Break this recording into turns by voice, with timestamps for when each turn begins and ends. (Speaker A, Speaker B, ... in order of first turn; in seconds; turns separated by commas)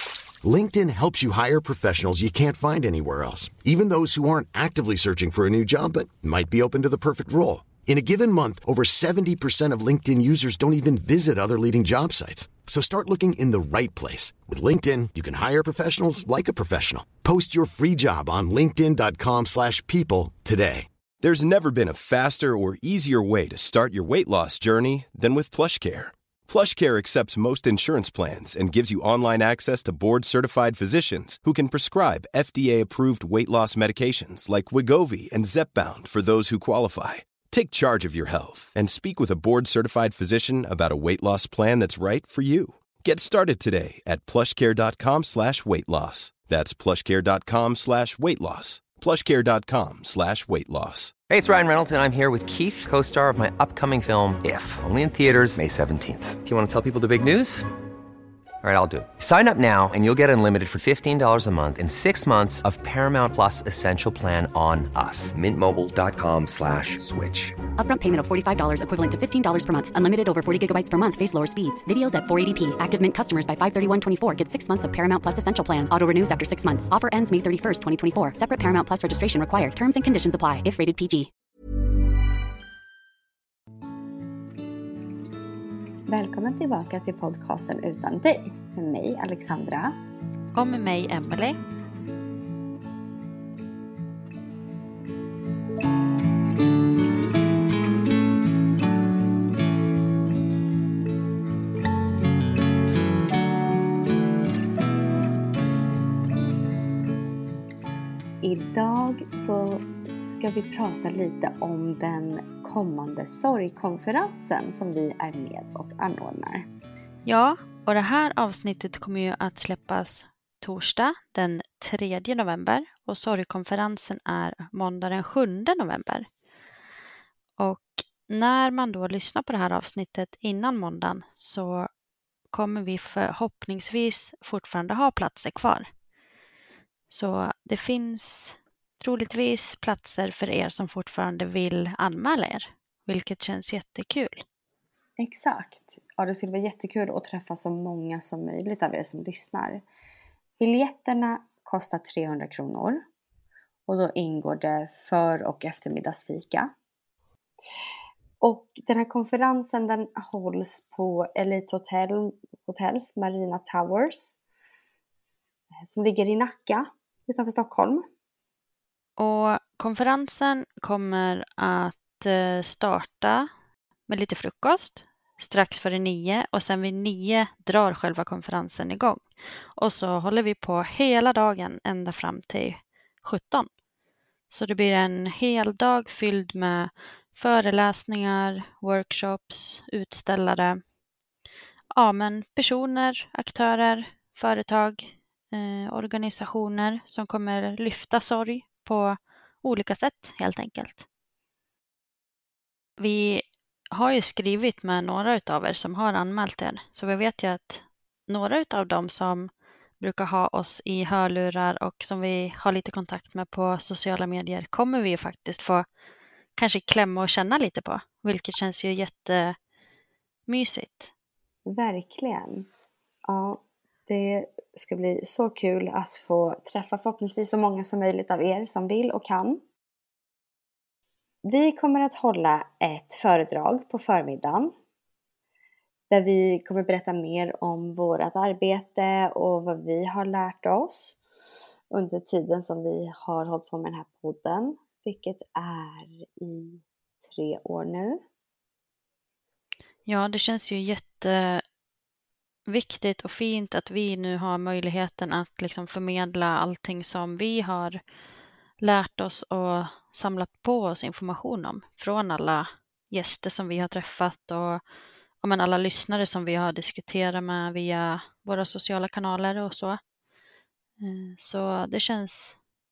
Speaker A: 0.4-20.9, Speaker B: 21.2-51.1, Speaker C: 51.3-57.6, Speaker C: 58.6-67.6, Speaker D: 67.8-81.3, Speaker E: 86.1-89.9, Speaker F: 90.5-91.6, Speaker E: 108.4-116.7, Speaker F: 117.2-126.3, Speaker F: 127.6-131.9, Speaker F: 132.5-135.9, Speaker F: 137.1-144.4, Speaker E: 145.2-149.8, Speaker E: 150.6-153.0, Speaker E: 153.9-156.7, Speaker E: 158.4-164.4, Speaker E: 165.8-168.0, Speaker F: 169.2-173.5, Speaker F: 174.1-183.7, Speaker F: 184.5-190.8, Speaker F: 191.9-201.1, Speaker F: 203.0-215.8, Speaker F: 216.6-219.6, Speaker F: 220.5-221.1, Speaker E: 221.7-222.7, Speaker E: 223.2-229.6, Speaker E: 231.4-234.7, Speaker E: 236.1-241.2, Speaker E: 241.9-248.2, Speaker F: 250.1-251.6, Speaker F: 252.7-258.0, Speaker F: 258.8-264.8, Speaker F: 265.4-270.0, Speaker F: 271.0-272.6